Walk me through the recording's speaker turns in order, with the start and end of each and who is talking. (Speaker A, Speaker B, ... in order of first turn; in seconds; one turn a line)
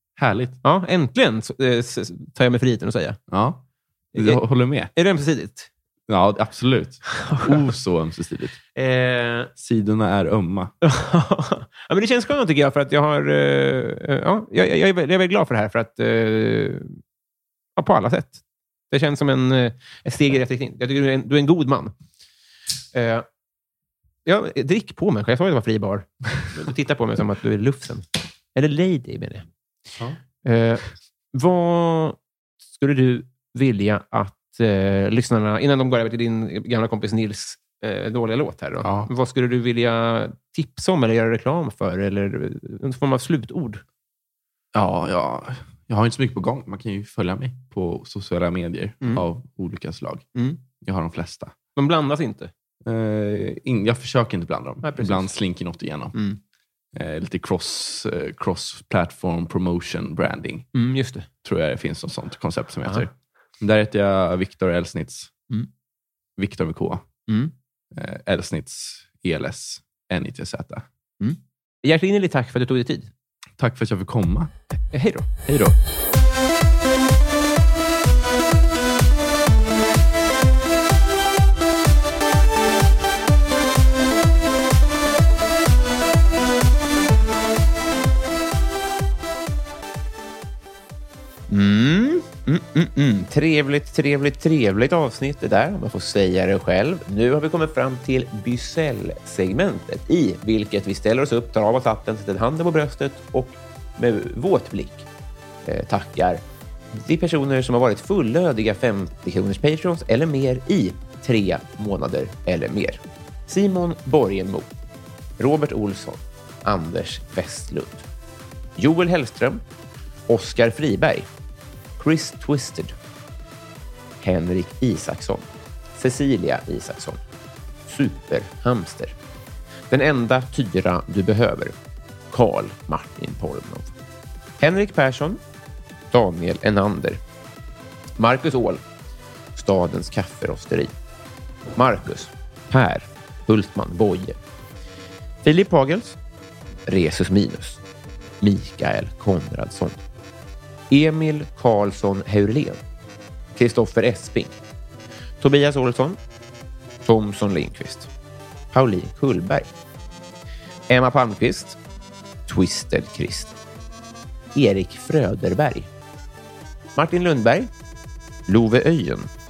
Speaker A: 0.2-0.6
Speaker B: 0.6-3.2
Speaker A: 3.3-3.6
Speaker B: 4.2-4.4
Speaker A: 4.2-4.9
Speaker B: 5.0-5.7
Speaker A: 6.1-8.6
Speaker B: 7.1-7.7
Speaker B: 8.8-9.5
Speaker A: 9.6-10.7
Speaker B: 10.8-17.0
Speaker B: 17.8-21.9
Speaker B: 22.9-23.3
Speaker B: 24.2-29.5
Speaker B: 30.4-32.2
Speaker B: 32.7-43.8
Speaker A: 38.8-39.1
Speaker A: 44.7-50.3
Speaker B: 50.4-50.6
Speaker A: 50.8-51.5
Speaker B: 51.8-52.5
Speaker A: 52.9-56.2
Speaker B: 54.8-55.3
Speaker A: 56.9-60.7
Speaker B: 60.7-61.3
Speaker A: 61.4-65.3
Speaker A: 66.4-67.1
Speaker B: 67.3-67.5
Speaker A: 67.9-70.9
Speaker B: 71.2-73.1
Speaker A: 73.6-74.5
Speaker B: 74.9-75.3
Speaker A: 75.5-75.8
Speaker B: 91.5-105.0
Speaker B: 105.7-106.4
Speaker B: 106.9-114.7
Speaker B: 115.4-118.0
Speaker B: 118.8-119.6
Speaker B: 120.3-121.3
Speaker B: 122.0-122.9
Speaker B: 124.2-125.5
Speaker B: 126.0-127.2
Speaker B: 127.9-129.1
Speaker B: 129.9-131.7
Speaker B: 132.3-133.9
Speaker B: 134.6-135.4
Speaker B: 136.1-137.2
Speaker B: 138.2-138.8
Speaker B: 139.6-140.9
Speaker B: 141.8-144.4
Speaker B: 145.4-146.2
Speaker B: 146.9-147.8
Speaker B: 148.4-150.0
Speaker B: 150.9-152.8
Speaker B: 153.6-154.5
Speaker B: 155.4-156.2
Speaker B: 157.1-158.1
Speaker B: 158.7-159.7
Speaker B: 160.9-161.8
Speaker B: 162.5-163.5
Speaker B: 164.6-165.9
Speaker B: 167.0-167.7
Speaker B: 168.5-169.3